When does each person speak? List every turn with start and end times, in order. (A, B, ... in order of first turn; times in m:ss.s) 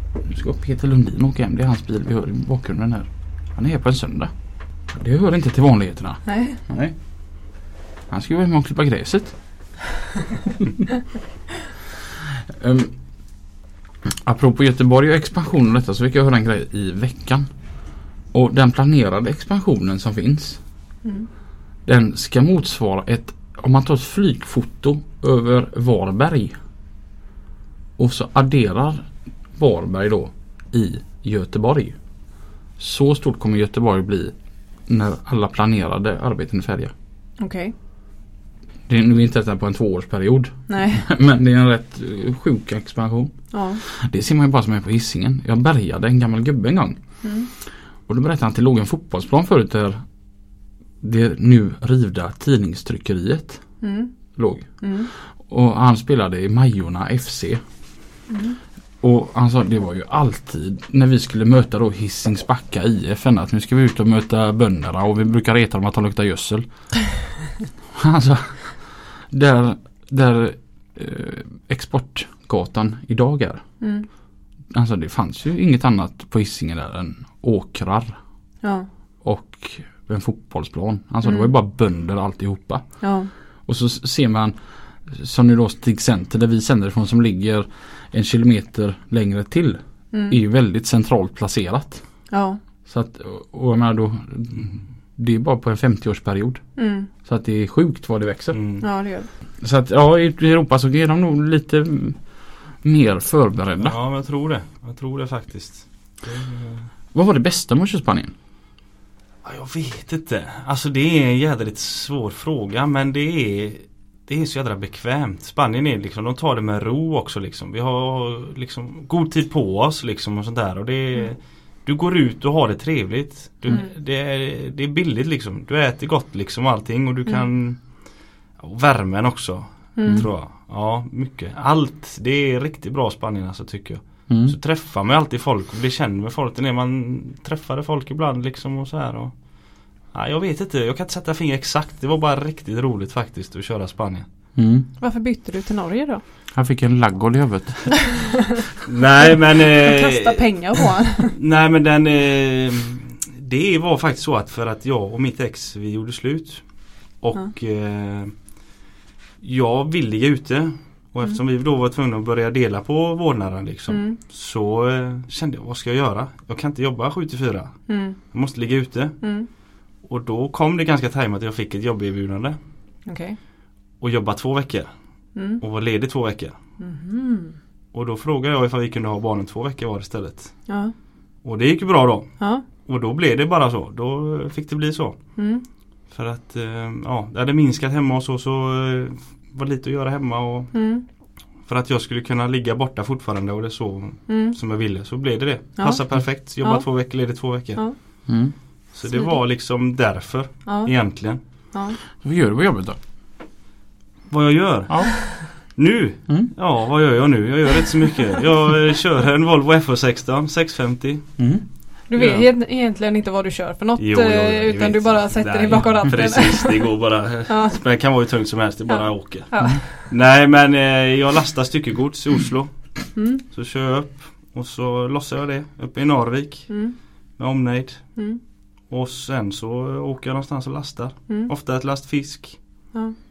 0:00.2-0:09.8 A
0:06.3-0:06.6 B
0:12.5-0:13.4 A
0:14.1-0:17.5 A
0:18.3-0:20.6 A
0:21.0-0:21.3 B
0:21.8-0:26.6 A
0:28.0-0:32.1 A
0:32.8-0:36.9 A
0:37.4-0:37.8 B
0:38.9-0:50.1 A
0:40.7-0:41.1 B
0:43.5-0:43.8 B
0:47.2-0:47.5 B
0:51.0-0:53.8 A
0:53.8-0:54.2 B
0:54.3-0:57.6 A
0:54.8-0:55.1 B
0:58.3-0:58.6 B
0:59.0-1:07.4 A
1:08.0-1:13.8 A
1:13.8-1:14.1 B
1:14.7-1:18.2 A
1:18.6-1:18.9 B
1:19.2-1:32.2 A
1:21.2-1:21.5 B
1:23.0-1:23.3 B
1:30.1-1:30.4 B
1:32.3-1:32.6 B
1:32.9-1:38.6 A
1:36.8-1:37.1 B
1:38.5-1:38.9 C
1:38.8-1:39.3 B
1:39.6-1:44.0 A
1:43.8-1:46.9 C
1:47.1-1:48.3 A
1:49.4-2:24.3 C
2:10.0-2:10.2 B
2:14.3-2:14.6 A
2:24.6-2:24.9 A
2:25.0-2:26.2 B
2:26.5-2:28.3 A
2:28.9-2:30.5 C
2:29.8-2:31.3 B
2:31.2-2:38.6 C
2:39.4-2:52.6 C
2:43.9-2:44.2 B
2:47.9-2:48.2 B
2:49.2-2:49.5 B
2:53.1-2:53.4 B
2:54.0-2:56.6 C
2:55.4-2:55.6 B
2:56.8-2:57.6 B
2:57.9-3:00.8 C
3:00.7-3:00.9 B
3:01.4-3:11.0 C
3:02.4-3:02.6 B
3:05.4-3:05.6 B
3:10.7-3:11.0 B
3:11.5-3:18.2 C
3:14.3-3:14.6 B
3:15.8-3:18.0 B
3:18.3-3:18.6 A
3:18.9-3:21.4 C
3:19.1-3:19.4 B
3:20.7-3:22.0 B
3:22.2-3:23.0 A
3:24.3-3:31.5 C
3:24.9-3:25.6 A
3:26.3-3:26.5 A
3:31.4-3:31.7 A
3:32.1-3:37.8 B
3:32.1-3:32.5 C
3:34.0-3:53.0 C
3:38.9-3:40.0 B
3:43.2-3:43.4 B
3:46.7-3:47.0 B
3:48.2-3:48.4 B